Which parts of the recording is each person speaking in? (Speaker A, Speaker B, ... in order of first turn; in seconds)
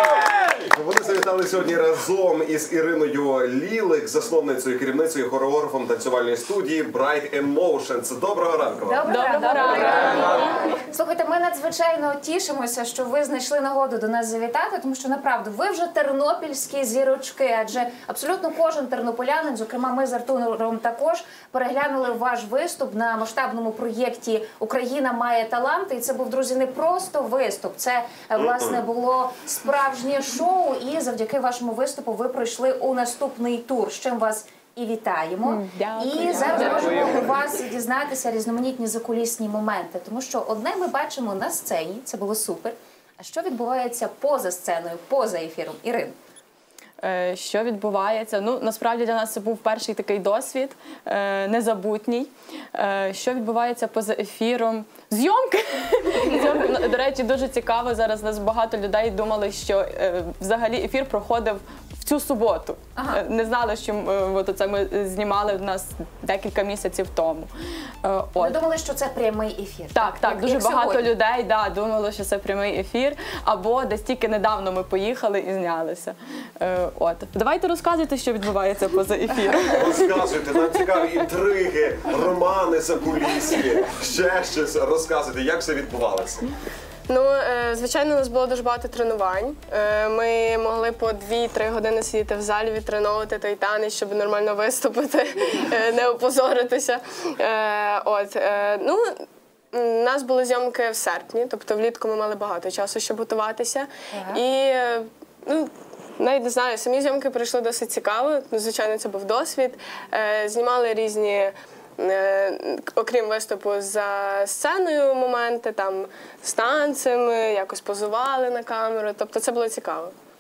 Speaker A: 0.5-9.1, 10.0-10.3, 28.4-28.8, 79.8-86.5
Speaker B: 8.8-46.1, 63.0-63.2, 68.4-71.1, 104.1-104.4
Speaker C: 9.1-10.5, 35.5-37.1, 47.0-67.5, 68.0-68.6, 69.9-80.1
Speaker D: 87.1-120.1